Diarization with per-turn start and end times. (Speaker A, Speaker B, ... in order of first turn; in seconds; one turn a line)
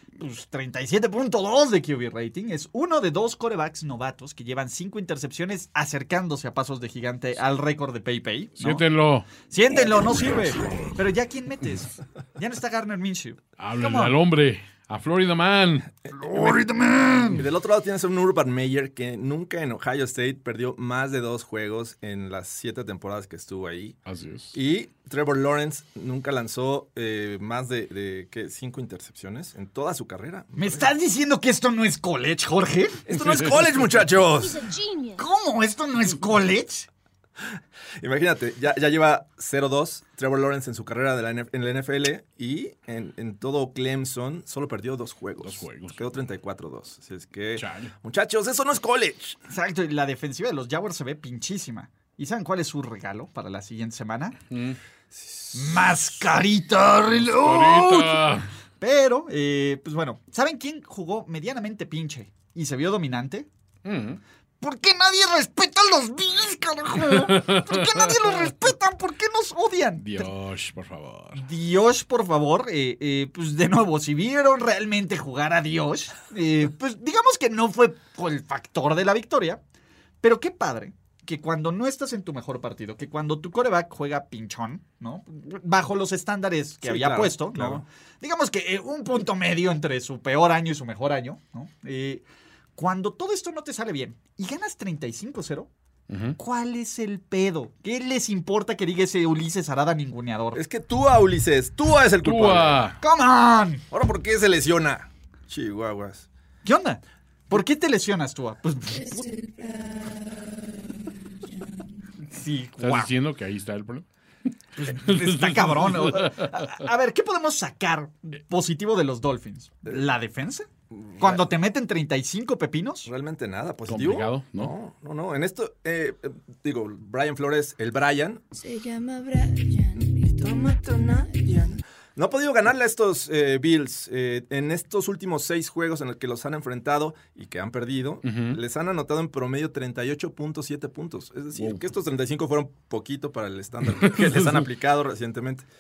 Speaker A: 0.2-8.8
Speaker B: 8.6-9.3
Speaker A: 9.4-14.2
Speaker B: 13.6-15.9
Speaker A: 16.1-17.4
Speaker C: 16.3-16.5
Speaker C: 17.3-24.0
Speaker B: 24.1-24.6
Speaker C: 24.5-30.9
Speaker A: 30.5-33.0
Speaker C: 33.0-34.6
Speaker B: 33.1-33.9
Speaker D: 34.3-35.2
Speaker A: 35.2-36.9
Speaker C: 38.0-49.4
Speaker B: 45.4-46.0
Speaker B: 47.6-47.9
Speaker A: 49.5-54.4
Speaker B: 54.5-54.8
Speaker C: 55.1-55.9
Speaker A: 55.5-58.3
Speaker B: 57.2-58.5
Speaker A: 58.8-63.5
Speaker B: 63.8-64.2
Speaker A: 64.6-70.3
Speaker B: 67.0-68.5
Speaker B: 70.0-71.4
Speaker A: 71.3-79.6
Speaker A: 80.2-92.2
Speaker C: 86.8-87.8
Speaker A: 92.8-95.7
Speaker B: 96.1-96.4
Speaker A: 96.4-100.6
Speaker C: 100.5-103.0
Speaker B: 102.2-103.0
Speaker A: 103.0-103.8
Speaker C: 103.9-106.3
Speaker A: 106.6-109.3
Speaker D: 108.9-111.9
Speaker A: 112.3-113.1
Speaker B: 112.8-114.0
Speaker A: 114.8-120.7
Speaker B: 114.9-116.7
Speaker C: 120.9-121.5
Speaker A: 121.2-123.1
Speaker C: 123.0-128.4
Speaker B: 123.9-124.7
Speaker D: 128.5-131.8
Speaker C: 130.0-145.7
Speaker B: 138.2-138.6
Speaker B: 141.6-141.8
Speaker B: 144.0-144.6